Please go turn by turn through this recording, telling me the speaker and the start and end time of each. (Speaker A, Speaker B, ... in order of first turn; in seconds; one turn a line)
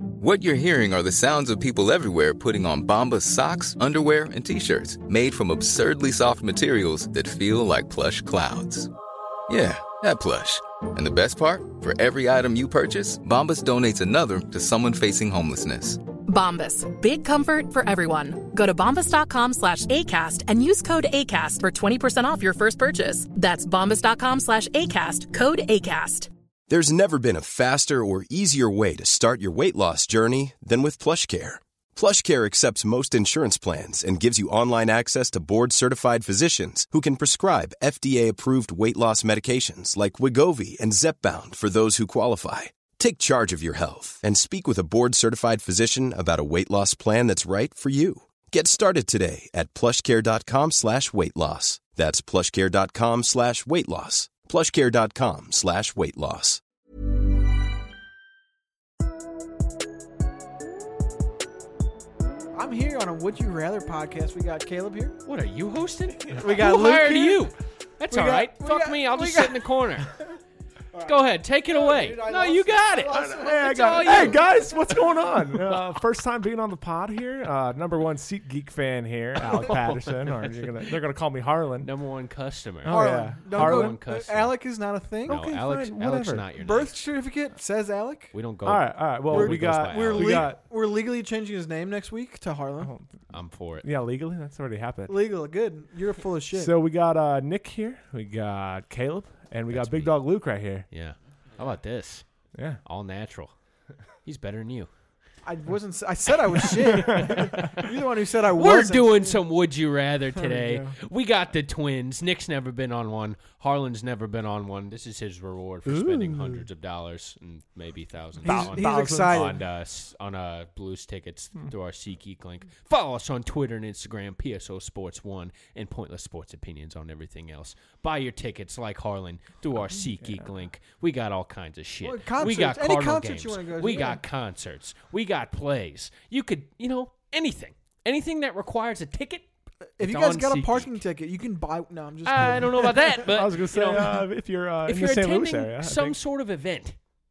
Speaker A: 0.2-8.9
Speaker A: 9.5-16.0
Speaker B: 16.3-26.3
Speaker C: 26.7-56.6
Speaker D: 62.5-65.2
Speaker E: 65.3-70.1
Speaker D: 66.4-67.5
Speaker D: 68.1-70.2
Speaker D: 70.9-74.6
Speaker E: 71.0-74.8
Speaker F: 73.1-81.9
Speaker E: 81.8-84.6
Speaker F: 82.8-84.0
Speaker D: 82.9-85.5
Speaker E: 85.3-87.0
Speaker F: 85.3-86.5
Speaker D: 86.6-88.3
Speaker E: 88.3-90.5
Speaker F: 88.7-90.6
Speaker D: 89.3-92.9
Speaker F: 92.8-93.1
Speaker E: 93.3-93.9
Speaker F: 93.8-95.2
Speaker D: 95.1-96.7
Speaker F: 96.5-100.9
Speaker E: 99.7-100.2
Speaker E: 100.9-102.2
Speaker F: 102.5-102.8
Speaker E: 102.8-103.5
Speaker E: 104.2-104.9
Speaker D: 105.4-109.4
Speaker E: 106.6-107.2
Speaker F: 107.0-107.6
Speaker E: 108.5-139.4
Speaker D: 110.4-111.0
Speaker F: 115.9-116.7
Speaker F: 118.4-119.5
Speaker D: 118.4-119.6
Speaker D: 132.0-134.2
Speaker D: 140.0-143.2
Speaker E: 140.0-141.0
Speaker E: 142.2-144.3
Speaker F: 143.2-146.2
Speaker E: 144.8-147.0